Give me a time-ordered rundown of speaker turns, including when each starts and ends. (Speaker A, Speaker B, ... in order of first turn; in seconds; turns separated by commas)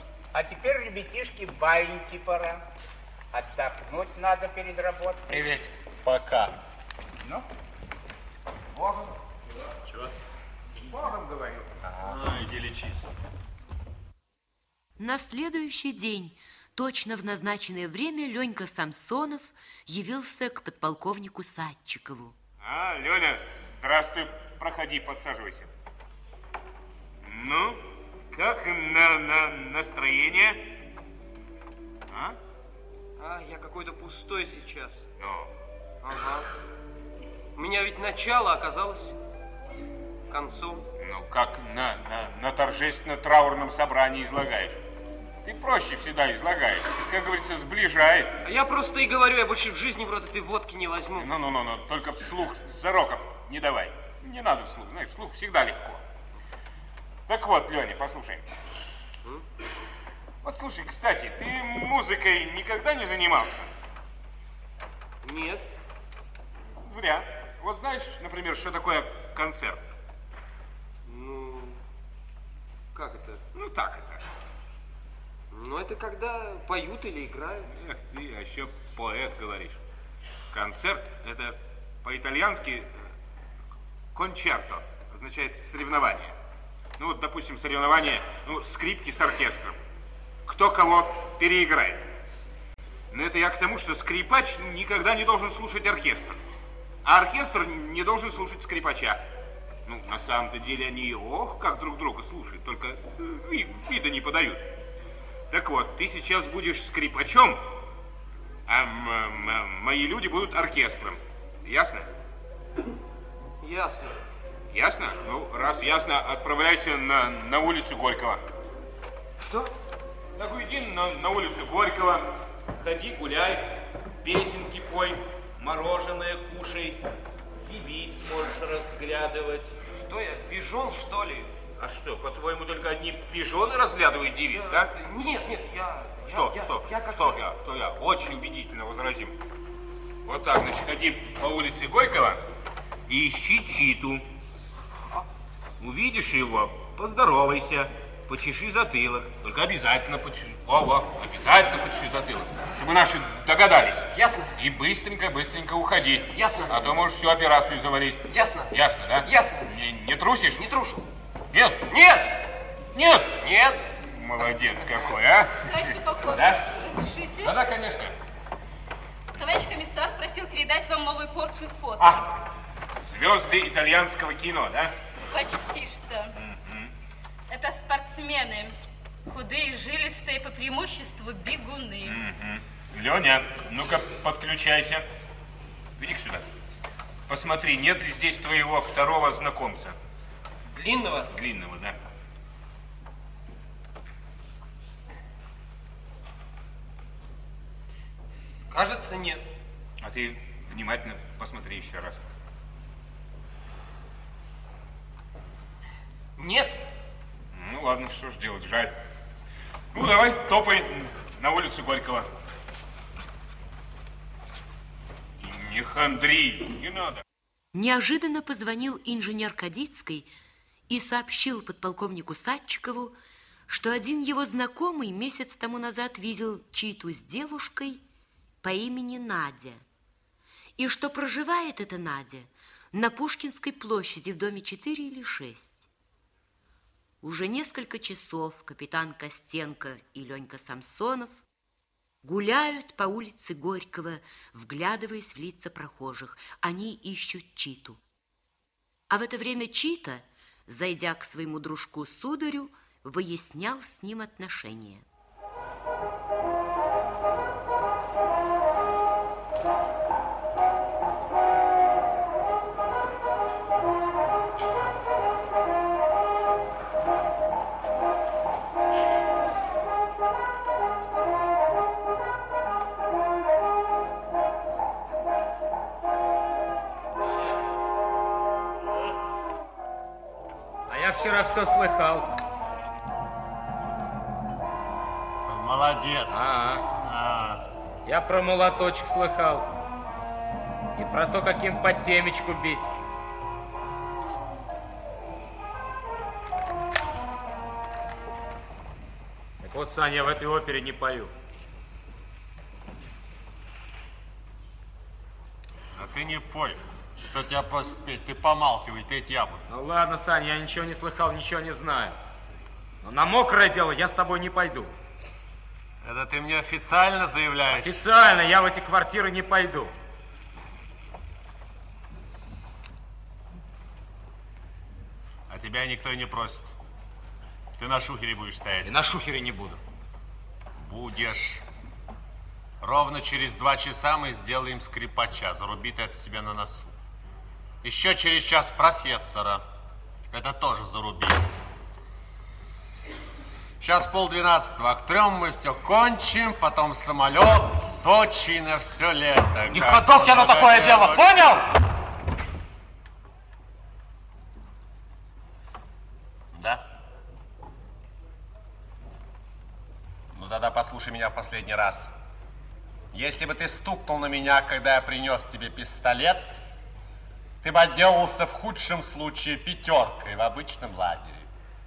Speaker A: 0.3-2.6, Speaker A: 3.3-5.5, Speaker B: 5.3-5.7, Speaker C: 6.0-6.5, Speaker A: 10.9-11.7, Speaker C: 12.0-13.1, Speaker D: 15.0-22.4, Speaker E: 22.6-25.7, Speaker E: 27.2-30.7, Speaker E: 32.1-32.4, Speaker F: 33.2-35.0, Speaker E: 35.2-35.5, Speaker F: 36.0-36.5, Speaker F: 37.6-39.1, Speaker F: 40.3-40.9, Speaker E: 41.0-44.8, Speaker E: 45.4-48.4, Speaker F: 48.4-51.3, Speaker E: 51.2-56.0, Speaker E: 57.3-58.5, Speaker E: 60.4-63.7, Speaker F: 65.2-65.7, Speaker E: 66.8-69.9, Speaker F: 71.0-71.8, Speaker F: 73.0-73.4, Speaker E: 73.5-74.2, Speaker F: 75.5-77.7, Speaker E: 77.7-79.8, Speaker E: 80.5-82.9, Speaker E: 84.1-86.3, Speaker E: 87.0-89.8, Speaker E: 90.5-92.0, Speaker E: 93.1-96.4, Speaker E: 97.0-99.2, Speaker E: 99.9-104.7, Speaker E: 105.5-107.6, Speaker E: 108.7-112.1, Speaker F: 113.6-114.2, Speaker E: 114.7-118.4, Speaker F: 119.4-119.7, Speaker E: 120.4-127.0, Speaker E: 127.6-129.7, Speaker F: 129.9-131.5, Speaker E: 131.8-134.9, Speaker F: 134.5-137.4, Speaker E: 136.2-139.3, Speaker E: 140.3-142.4, Speaker E: 143.1-144.2, Speaker E: 145.8-160.6, Speaker F: 154.1-154.5, Speaker F: 156.3-156.8, Speaker F: 158.3-159.7, Speaker F: 160.6-161.1, Speaker E: 161.5-161.8, Speaker F: 161.8-162.4, Speaker E: 162.9-163.4, Speaker F: 163.3-163.8, Speaker E: 164.1-166.7, Speaker G: 165.6-167.6, Speaker E: 167.4-168.1, Speaker G: 169.4-172.2, Speaker E: 172.0-172.3, Speaker E: 173.0-174.9, Speaker G: 175.3-176.3, Speaker E: 176.4-176.9, Speaker G: 177.5-178.8, Speaker G: 179.3-182.2, Speaker E: 182.0-185.1, Speaker E: 186.0-186.4, Speaker E: 187.3-190.0, Speaker F: 190.7-191.3, Speaker E: 191.3-192.0, Speaker F: 198.7-199.4, Speaker E: 200.0-202.2, Speaker F: 206.4-206.8, Speaker E: 207.5-208.9, Speaker E: 209.9-212.3, Speaker E: 215.4-217.2, Speaker D: 217.7-220.3, Speaker D: 220.9-223.2, Speaker D: 223.7-228.0, Speaker D: 228.6-229.8, Speaker D: 230.8-235.9, Speaker D: 237.2-241.4, Speaker D: 242.2-248.0, Speaker D: 249.1-255.0, Speaker B: 280.9-282.3, Speaker C: 285.4-287.6, Speaker B: 286.3-286.9, Speaker B: 288.1-289.7, Speaker B: 291.0-292.9, Speaker B: 299.6-301.3, Speaker C: 306.0-309.6, Speaker B: 309.7-312.2, Speaker B: 313.0-314.9, Speaker C: 316.0-318.0, Speaker B: 317.7-319.9, Speaker C: 325.5-326.8, Speaker C: 327.8-328.9, Speaker B: 328.8-329.8, Speaker C: 330.8-331.6, Speaker C: 332.8-336.9, Speaker C: 337.8-339.6, Speaker C: 340.3-341.5, Speaker C: 343.8-351.6, Speaker B: 349.7-351.7, Speaker C: 356.5-356.9, Speaker C: 360.3-362.1, Speaker C: 363.1-366.5, Speaker C: 367.6-371.5